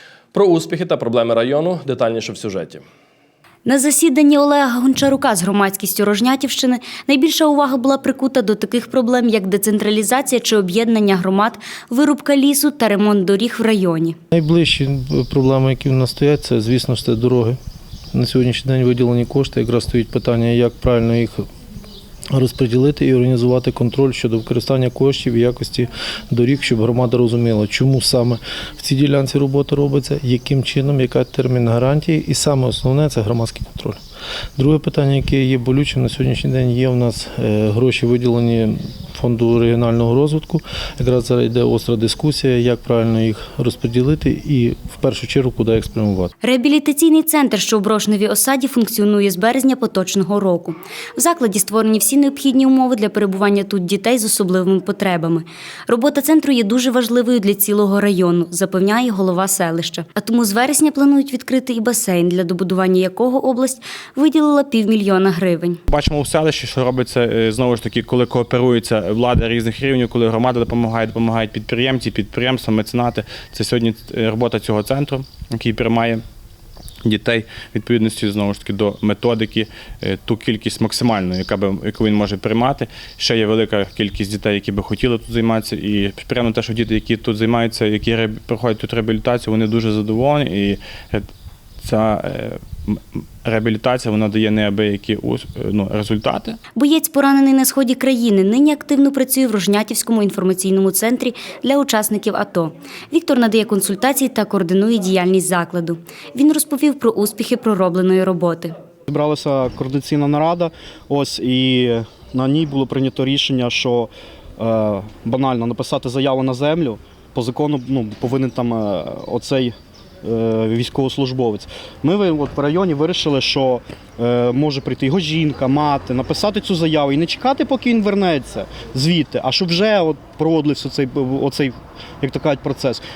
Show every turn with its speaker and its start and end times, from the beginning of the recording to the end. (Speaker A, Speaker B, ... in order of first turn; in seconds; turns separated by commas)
Speaker A: 0.3-2.8, Speaker B: 3.6-14.2, Speaker C: 14.3-17.6, Speaker C: 18.1-21.5, Speaker C: 22.3-34.0, Speaker C: 34.6-46.3, Speaker B: 46.4-65.8, Speaker D: 65.9-76.2, Speaker D: 77.0-91.2, Speaker D: 91.8-96.6, Speaker B: 96.8-108.7, Speaker E: 109.1-133.0